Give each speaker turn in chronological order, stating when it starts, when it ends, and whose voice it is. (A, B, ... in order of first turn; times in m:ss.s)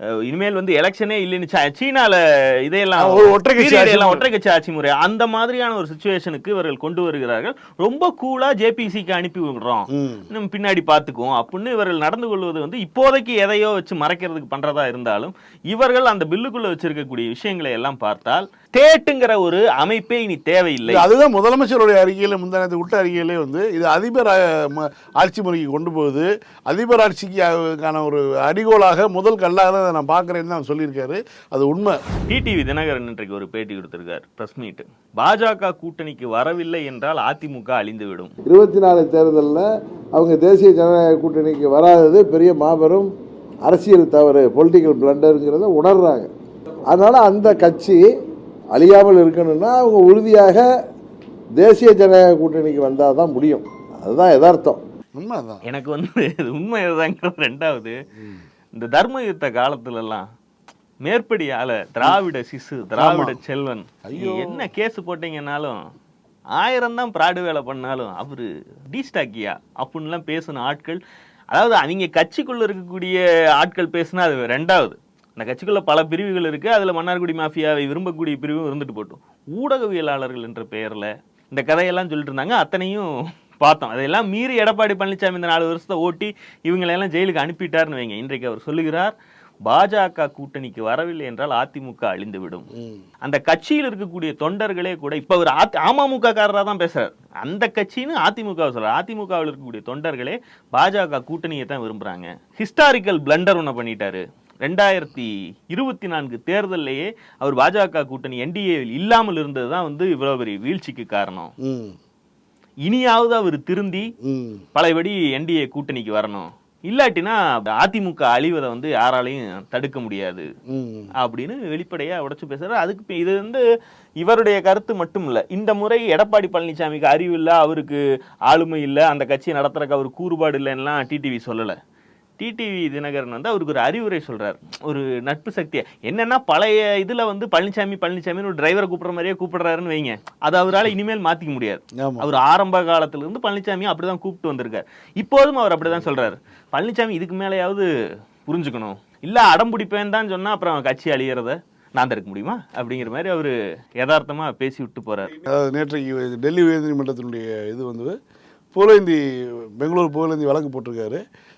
0:00.2-0:21.0 A
0:03.0-0:04.3 B
0:09.9-0:10.3 B
0:20.9-0:32.0 B
0:32.3-0:38.3 A
0:38.5-0:43.1 C
0:43.6-0:46.3 C
0:46.9-0:48.1 C
0:48.7-0:50.7 C
0:51.6-0:54.8 C
0:55.2-0:55.6 B
0:55.6-0:58.0 A
0:58.7-1:00.3 A
1:01.0-1:05.8 A
1:03.0-1:03.4 B
1:06.6-1:11.0 A
1:11.5-1:29.1 A
1:29.7-1:32.7 A
1:33.2-1:51.5 A
1:51.6-1:52.0 B
1:52.9-1:54.1 A
1:54.2-1:54.6 B
1:54.8-2:00.5 A
2:00.7-2:01.1 B
2:01.2-2:03.6 A
2:04.2-2:11.8 A
2:12.4-2:27.9 A
2:22.0-2:22.3 B
2:28.5-2:35.3 A
2:35.4-2:38.2 B
2:38.7-2:41.2 B